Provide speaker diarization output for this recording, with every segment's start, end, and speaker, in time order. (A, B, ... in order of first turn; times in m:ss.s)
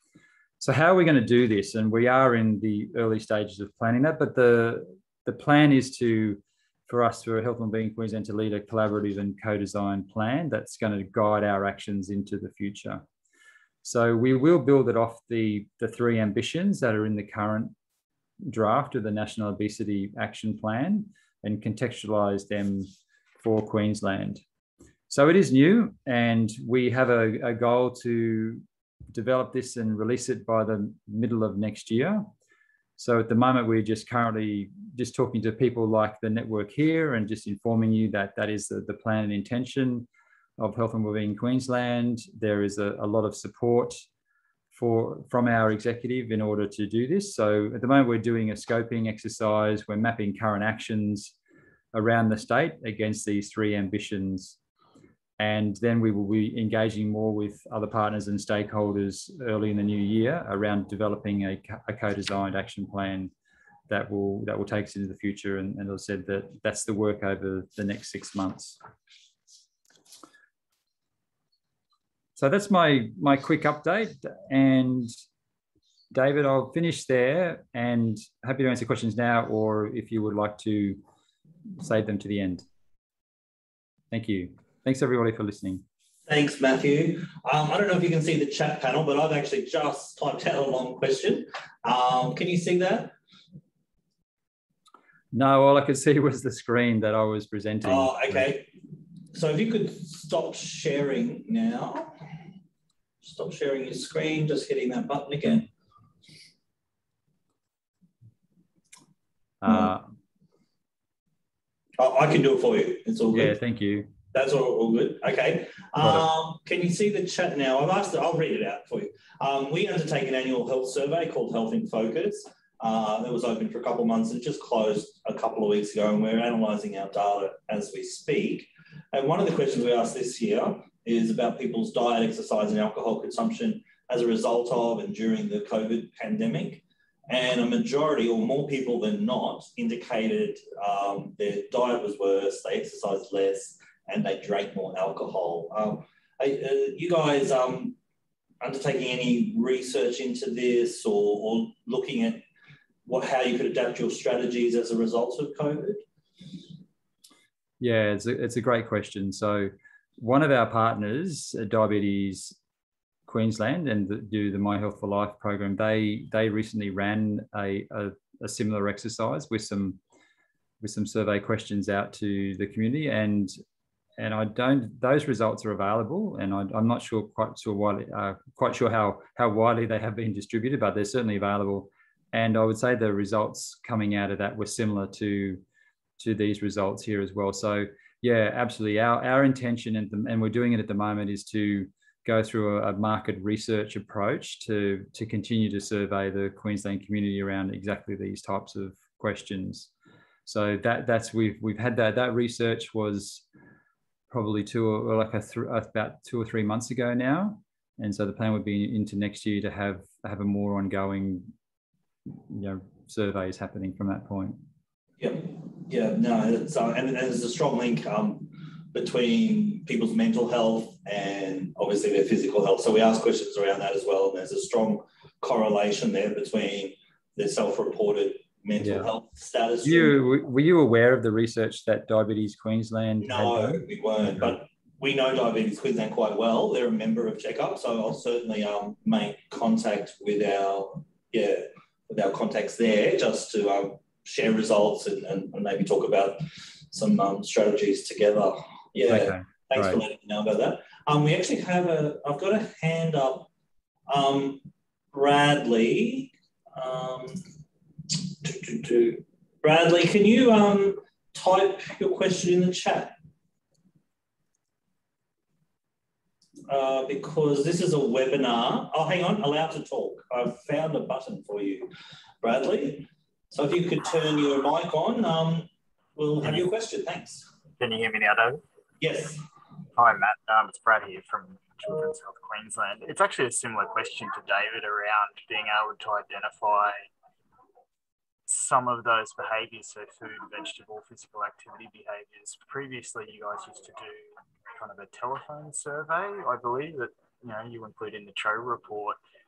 0:00.6-0:13.0 A
0:13.8-0:17.7 A
0:18.5-0:22.9 A
0:23.4-0:24.4 A
0:25.1-0:32.3 A
0:33.0-0:40.1 A
0:40.6-0:44.0 A
0:44.7-0:51.3 A
0:51.9-0:54.6 A
0:55.4-1:03.3 A
1:03.9-1:08.8 A
1:12.4-1:15.2 A
1:16.1-1:21.0 A
1:21.8-1:22.6 A
1:24.1-1:25.8 A
1:26.3-1:33.1 B
1:35.3-1:38.5 A
1:37.8-1:38.7 B
1:39.3-1:42.2 B
1:43.2-1:45.7 B
1:49.6-1:50.1 A
1:52.0-1:53.5 B
1:53.3-1:54.1 A
1:54.3-2:28.0 B
1:56.0-1:56.3 A
2:28.6-2:32.4 B
2:33.0-2:36.0 B
2:37.8-2:42.6 A
2:43.3-2:50.0 A
2:50.8-2:53.5 A
2:54.2-3:05.6 A
3:06.2-3:19.9 A
3:20.5-3:23.4 A
3:24.3-3:31.5 A
3:32.5-3:34.6 A
3:35.2-3:50.2 B
3:48.8-3:49.1 A
3:49.8-3:53.8 A
3:53.2-4:13.5 B
4:09.1-4:10.0 A
4:14.1-4:17.4 B
4:18.3-4:23.1 B
4:26.7-4:31.9 B
4:32.4-4:37.5 B
4:37.8-4:38.6 C
4:39.0-4:39.4 B
4:40.0-4:47.1 C
4:48.5-4:59.2 C